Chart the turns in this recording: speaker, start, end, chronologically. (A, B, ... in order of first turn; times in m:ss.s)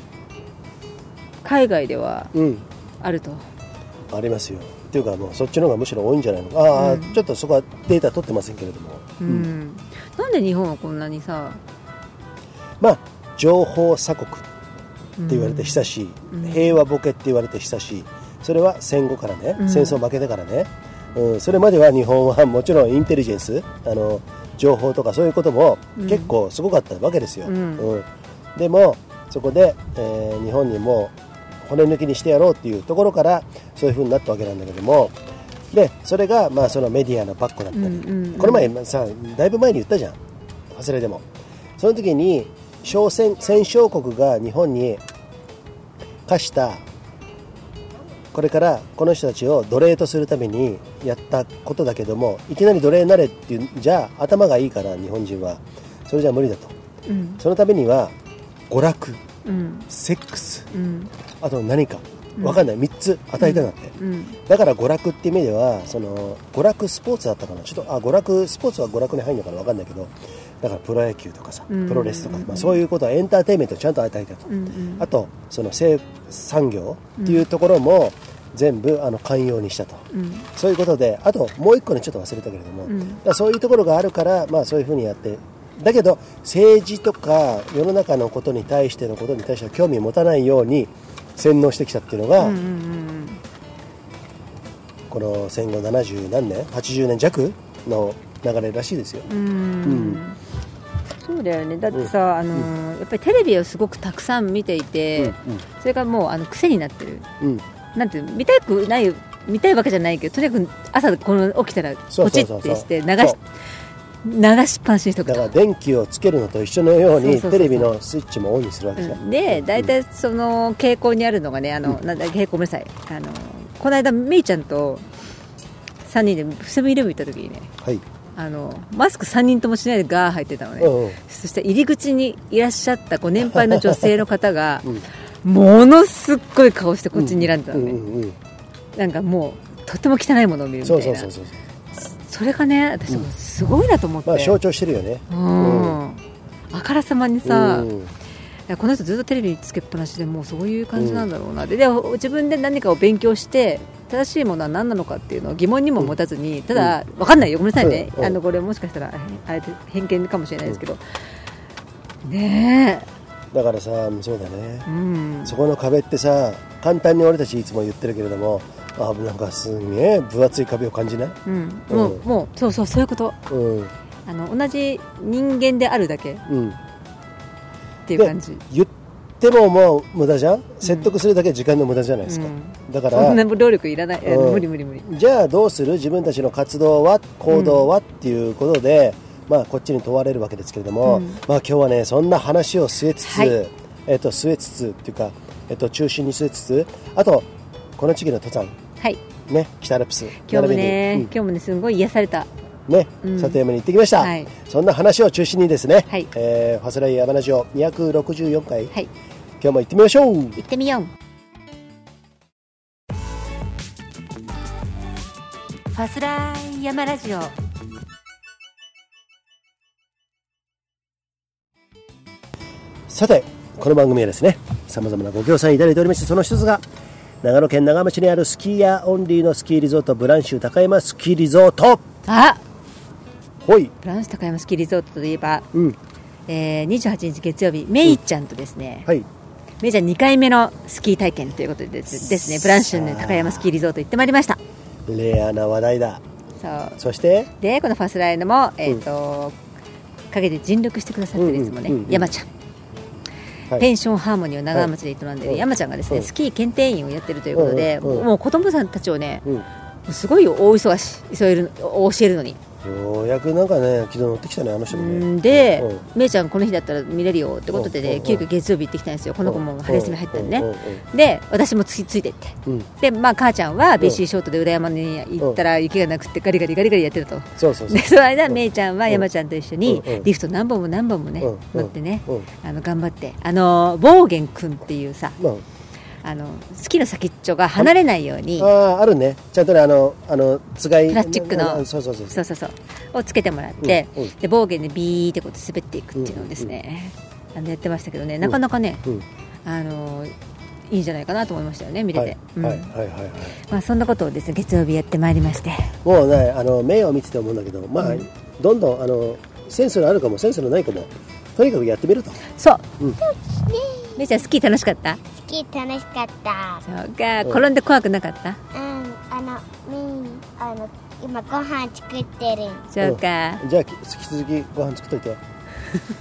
0:01.4-0:02.3 A
0:02.3-0:02.6 B
0:03.0-0:03.4 A
0:04.1-0:09.5 B
0:06.7-0:07.2 A
0:09.2-0:11.6 A
0:12.8-0:14.5 B
0:15.2-0:16.8 A
0:15.3-0:35.2 B
0:19.6-0:20.0 A
0:26.0-0:26.3 A
0:27.4-0:27.9 A
0:35.7-0:40.2 B
0:37.7-0:38.7 A
0:40.7-0:41.2 B
0:41.8-0:45.0 B
0:46.2-0:46.8 B
0:48.3-0:56.7 B
0:57.1-0:57.4 A
0:57.4-0:58.1 B
0:58.7-0:59.2 B
0:59.4-0:59.9 A
0:59.9-1:00.7 B
1:00.7-1:01.1 A
1:01.4-1:32.6 B
1:03.4-1:04.3 A
1:11.7-1:12.8 A
1:14.5-1:15.0 A
1:17.2-1:17.4 A
1:20.1-1:20.5 A
1:22.8-1:23.2 A
1:32.4-1:33.4 A
1:35.1-1:39.3 B
1:39.3-1:40.4 A
1:39.8-1:40.2 B
1:41.2-1:47.3 A
1:41.9-1:42.7 B
1:45.2-1:45.6 B
1:47.9-1:53.4 A
1:52.1-1:53.4 B
1:54.2-1:55.5 A
1:55.2-1:59.9 B
1:57.1-1:57.9 A
1:59.0-2:05.0 A
2:06.1-2:07.7 A
2:08.3-2:14.9 A
2:10.8-2:11.2 B
2:13.4-2:14.1 B
2:15.4-2:18.0 A
2:17.1-2:18.4 B
2:19.0-2:21.3 A
2:20.8-2:21.6 B
2:22.0-2:24.6 A
2:24.2-2:26.0 B
2:25.3-2:27.9 A
2:27.4-2:28.1 B
2:28.7-2:41.0 A
2:31.0-2:31.2 B
2:37.8-2:38.4 B
2:42.2-2:43.1 A
2:43.5-2:44.9 B
2:44.8-2:45.6 A
2:45.4-2:51.4 B
2:51.4-2:53.4 A
2:51.9-2:52.2 B
2:53.5-2:53.9 B
2:54.2-2:56.4 A
2:56.5-2:56.8 B
2:58.1-2:58.6 A
2:58.1-3:03.4 B
3:00.8-3:01.1 A
3:02.3-3:05.1 A
3:04.2-3:18.7 B
3:07.5-3:07.9 A
3:11.0-3:11.4 A
3:13.2-3:13.6 A
3:19.4-3:21.3 B
3:20.5-3:22.5 A
3:22.9-3:28.9 B
3:23.2-3:23.6 A
3:24.2-3:24.5 A
3:29.6-3:30.6 B
3:30.6-3:31.1 A
3:35.9-3:37.6 A
3:43.1-3:46.8 B
3:47.4-3:52.0 B
3:52.2-3:52.6 A
3:53.6-3:53.9 B
3:54.0-3:55.6 A
3:55.7-3:56.0 B
3:56.5-3:59.1 A
3:59.8-4:04.6 A
4:02.1-4:03.7 B
4:05.1-4:06.2 B
4:06.6-4:07.0 A
4:07.0-4:07.5 B
4:07.6-4:09.6 A
4:10.3-4:12.5 A
4:11.3-4:12.3 B
4:13.7-4:19.4 A
4:15.4-4:16.3 B
4:17.5-4:18.3 B
4:20.1-4:22.6 A
4:22.8-4:26.0 B
4:24.9-4:45.4 A
4:27.7-4:28.4 B
4:29.4-4:31.0 B
4:37.6-4:39.2 B
4:39.8-4:40.3 B
4:41.4-4:42.5 B
4:45.4-4:45.6 B
4:46.2-4:48.7 A
4:48.6-4:52.4 B
4:51.1-4:59.0 A
4:53.8-4:54.3 B
4:56.1-4:56.7 B
4:58.4-4:59.2 B
4:59.6-5:00.3 A
5:00.9-5:02.9 A
5:02.1-5:03.6 B
5:03.6-5:06.0 A
5:06.0-5:12.4 B
5:12.5-5:12.8 A
5:13.2-5:14.2 C
5:14.2-5:15.2 A
5:15.4-5:16.8 C
5:16.8-5:18.6 A
5:18.7-5:22.8 C
5:22.9-5:23.6 A
5:23.0-5:25.4 B